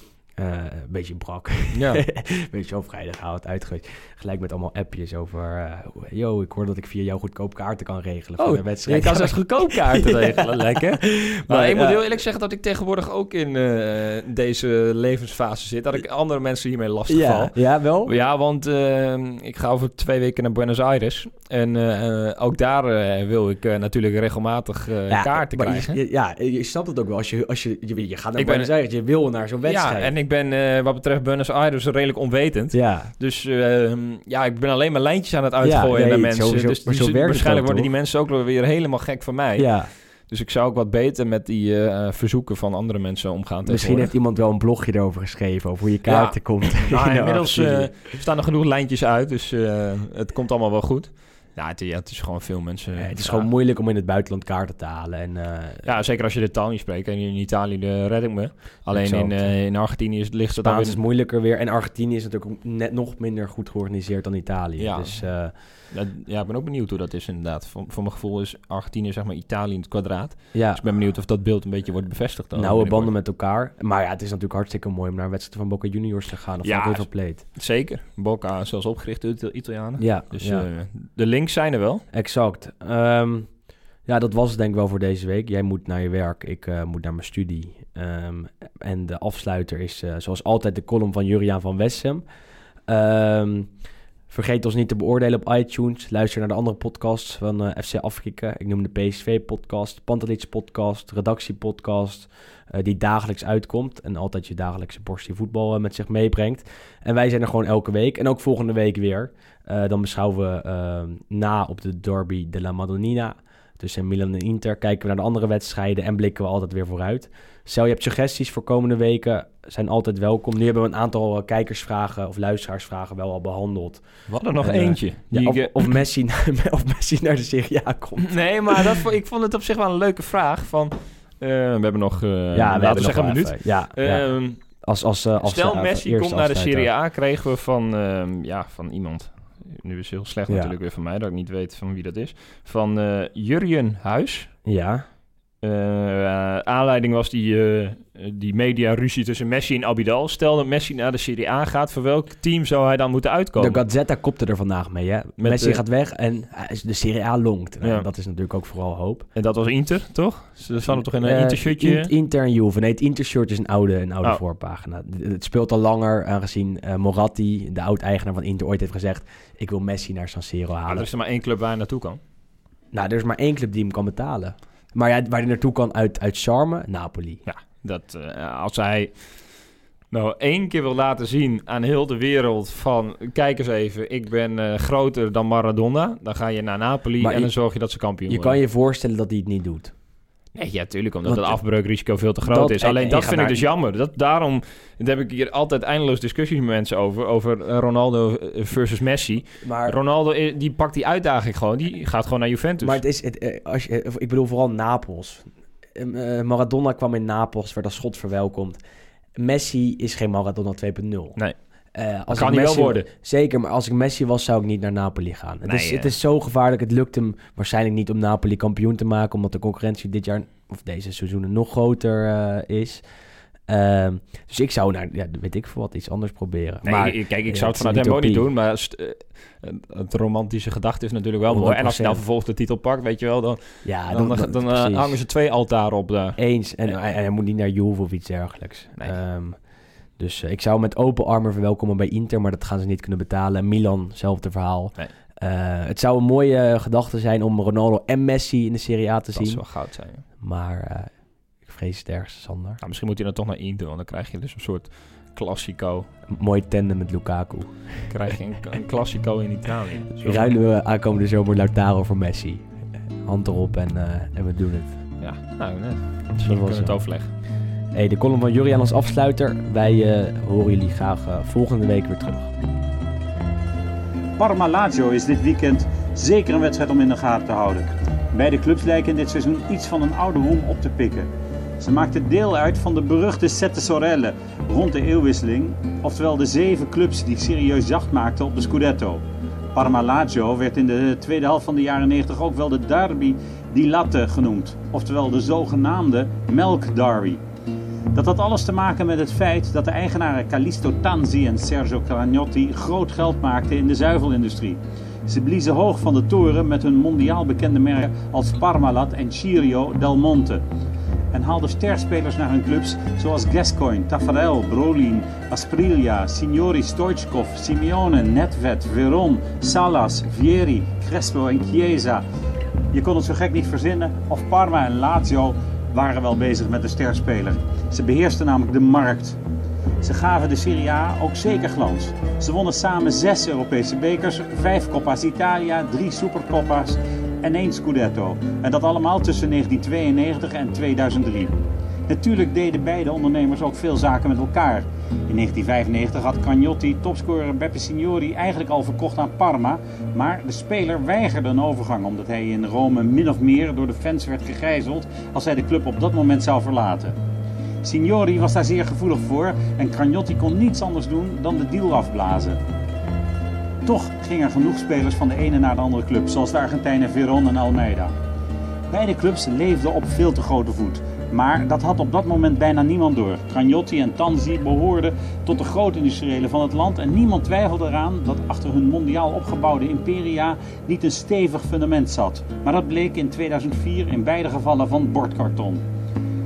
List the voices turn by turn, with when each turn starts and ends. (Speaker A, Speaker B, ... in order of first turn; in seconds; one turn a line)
Speaker A: 0.4-12.0
Speaker B: 1.7-2.0
Speaker B: 8.4-26.0
Speaker A: 17.1-18.1
Speaker A: 25.1-30.1
Speaker B: 28.4-28.7
Speaker B: 29.6-44.1
Speaker A: 32.7-33.1
Speaker A: 35.6-37.9
Speaker A: 39.6-39.9
Speaker A: 43.6-48.1
Speaker B: 46.0-53.5
Speaker A: 53.0-55.9
Speaker B: 55.8-61.0
Speaker A: 58.9-59.5
Speaker A: 60.6-65.5
Speaker B: 64.8-73.1
Speaker A: 70.5-70.8
Speaker A: 72.5-77.4
Speaker B: 76.6-82.0
Speaker A: 80.0-80.7
Speaker A: 82.1-83.5
Speaker A: 84.0-92.2
Speaker A: 92.9-93.7
Speaker A: 94.3-124.0
Speaker B: 124.3-125.9
Speaker A: 124.6-128.9
Speaker B: 128.2-134.6
Speaker A: 132.5-136.9
Speaker B: 135.4-144.5
Speaker A: 140.5-140.7
Speaker A: 144.6-145.0
Speaker B: 145.6-153.8
Speaker A: 153.6-159.3
Speaker B: 155.4-155.8
Speaker B: 159.3-162.1
Speaker A: 160.8-171.1
Speaker B: 170.8-172.2
Speaker A: 172.9-177.4
Speaker B: 177.4-179.4
Speaker B: 180.1-188.6
Speaker A: 187.2-187.5
Speaker A: 188.3-189.9
Speaker B: 190.5-203.0
Speaker A: 191.2-191.6
Speaker A: 192.4-193.7
Speaker A: 199.6-200.0
Speaker A: 202.8-208.8
Speaker A: 209.3-211.4
Speaker A: 211.9-223.0
Speaker B: 212.3-213.1
Speaker B: 215.7-216.1
Speaker A: 223.7-228.5
Speaker B: 226.8-236.4
Speaker A: 231.5-232.2
Speaker A: 233.8-235.2
Speaker A: 236.4-239.6
Speaker A: 240.2-249.7
Speaker B: 249.3-250.2
Speaker A: 250.3-252.8
Speaker B: 252.8-256.1
Speaker A: 256.3-258.1
Speaker B: 258.1-260.5
Speaker A: 260.2-262.7
Speaker A: 263.2-265.0
Speaker B: 265.2-267.3
Speaker A: 266.4-267.0
Speaker A: 267.9-272.5
Speaker C: 274.4-281.3
Speaker C: 281.8-289.2
Speaker C: 289.7-297.4
Speaker C: 298.1-310.6
Speaker C: 311.3-322.2
Speaker C: 322.9-329.4
Speaker C: 330.0-341.5
Speaker C: 342.1-357.1
Speaker C: 357.8-362.6
Speaker C: 363.8-368.1
Speaker C: 368.9-385.8